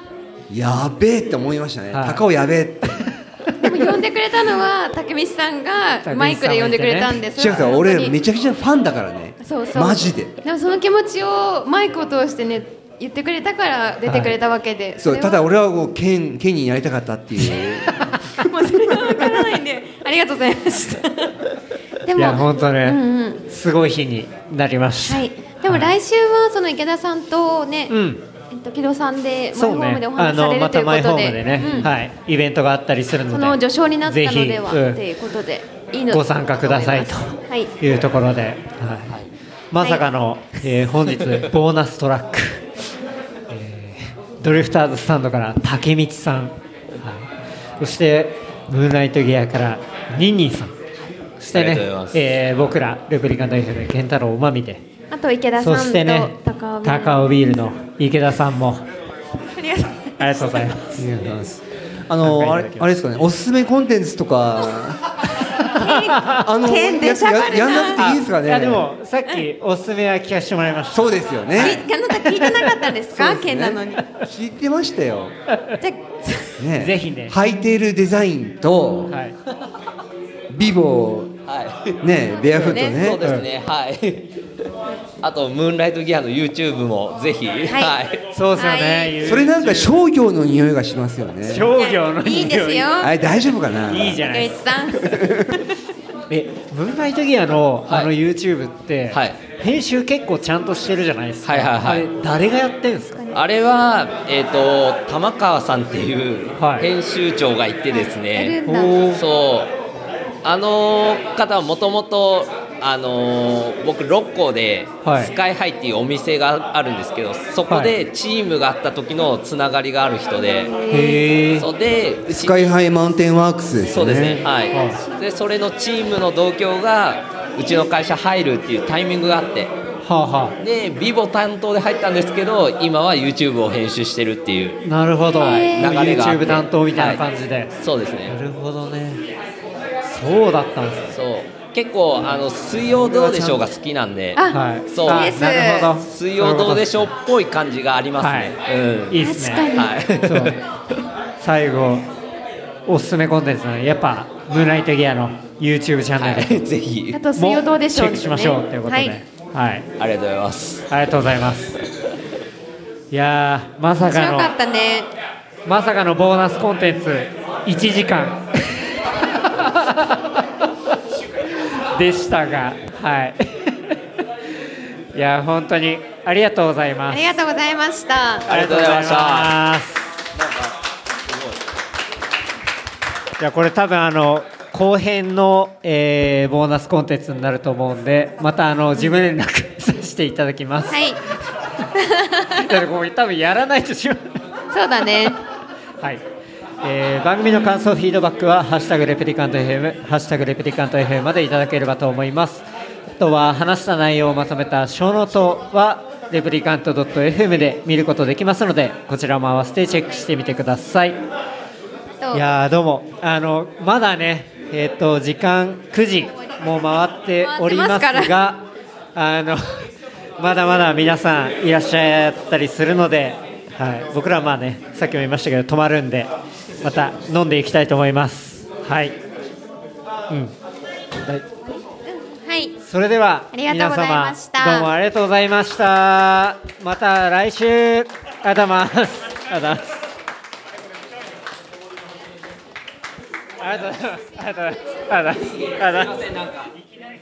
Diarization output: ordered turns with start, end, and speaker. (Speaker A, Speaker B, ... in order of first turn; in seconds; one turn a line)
Speaker A: 0.5-3.1
Speaker B: 1.9-2.2
Speaker B: 3.5-3.7
Speaker C: 3.6-8.1
Speaker B: 6.0-7.2
Speaker A: 7.3-10.3
Speaker C: 9.4-15.4
Speaker B: 14.1-14.3
Speaker A: 15.0-17.9
Speaker C: 18.4-21.3
Speaker C: 22.1-23.4
Speaker B: 22.1-25.9
Speaker C: 25.0-27.9
Speaker B: 27.9-28.2
Speaker C: 28.5-31.9
Speaker B: 29.5-35.0
Speaker D: 31.6-31.9
Speaker C: 33.3-37.7
Speaker B: 36.1-39.1
Speaker B: 39.7-42.6
Speaker C: 39.8-40.1
Speaker B: 43.5-50.8
Speaker D: 51.4-52.2
Speaker B: 51.4-54.9
Speaker C: 55.1-57.4
Speaker B: 55.6-58.9
Speaker C: 59.5-60.9
Speaker B: 60.2-61.1
Speaker A: 60.9-65.1
Speaker B: 62.2-62.9
Speaker B: 65.6-66.5
Speaker C: 65.7-68.0
Speaker A: 66.3-68.9
Speaker B: 68.0-72.7
Speaker A: 70.9-71.8
Speaker C: 71.5-73.8
Speaker A: 73.1-75.4
Speaker C: 75.8-76.5
Speaker A: 76.6-79.1
Speaker B: 76.7-77.3
Speaker B: 79.1-79.3
Speaker A: 80.5-81.3
Speaker D: 81.5-82.0
Speaker A: 82.0-83.2
Speaker C: 82.1-83.1
Speaker D: 82.6-84.3
Speaker B: 83.2-83.5
Speaker D: 85.2-88.2
Speaker C: 87.7-88.0
Speaker B: 88.3-90.0
Speaker C: 88.5-89.3
Speaker A: 89.2-91.7
Speaker B: 91.5-92.9
Speaker C: 91.7-93.2
Speaker A: 93.0-94.2
Speaker B: 93.9-94.6
Speaker C: 94.2-95.5
Speaker A: 95.0-95.5
Speaker B: 96.3-103.2
Speaker D: 99.1-99.4
Speaker D: 101.4-102.1
Speaker D: 103.3-109.7
Speaker B: 106.5-106.9
Speaker C: 107.9-109.1
Speaker B: 108.6-109.2
Speaker D: 110.4-120.7
Speaker B: 115.0-115.3
Speaker B: 117.7-118.0
Speaker C: 120.5-121.2
Speaker B: 120.9-121.7
Speaker D: 121.6-122.7
Speaker A: 122.3-124.5
Speaker D: 123.9-129.7
Speaker B: 124.7-125.0
Speaker B: 130.0-130.6
Speaker D: 130.6-134.8
Speaker B: 134.8-137.7
Speaker C: 135.4-135.9
Speaker D: 135.4-137.2
Speaker D: 137.7-138.3
Speaker B: 138.2-139.2
Speaker B: 140.0-141.1
Speaker D: 141.1-145.4
Speaker B: 142.9-143.6
Speaker C: 144.3-145.9
Speaker B: 144.5-147.1
Speaker D: 146.0-150.6
Speaker B: 148.2-148.6
Speaker B: 149.1-150.6
Speaker C: 149.2-150.0
Speaker B: 151.4-152.1
Speaker B: 152.9-156.6
Speaker D: 156.2-157.2
Speaker C: 157.1-159.2
Speaker B: 157.3-159.8
Speaker D: 160.0-160.8
Speaker B: 160.9-161.7
Speaker B: 163.1-164.5
Speaker C: 164.0-165.1
Speaker B: 165.6-170.4
Speaker B: 171.9-173.9
Speaker B: 175.1-177.3
Speaker C: 177.1-178.5
Speaker D: 178.5-179.6
Speaker B: 178.5-180.0
Speaker D: 180.3-180.7
Speaker D: 181.3-181.6
Speaker B: 183.4-191.0
Speaker C: 190.9-191.2
Speaker C: 191.9-192.7
Speaker B: 192.5-194.3
Speaker C: 194.7-195.4
Speaker B: 196.8-211.2
Speaker B: 212.3-226.3
Speaker C: 217.4-218.4
Speaker B: 226.8-229.2
Speaker B: 230.3-230.5
Speaker C: 232.0-232.7
Speaker B: 232.8-240.0
Speaker C: 233.5-234.9
Speaker B: 243.6-246.3
Speaker D: 245.9-246.6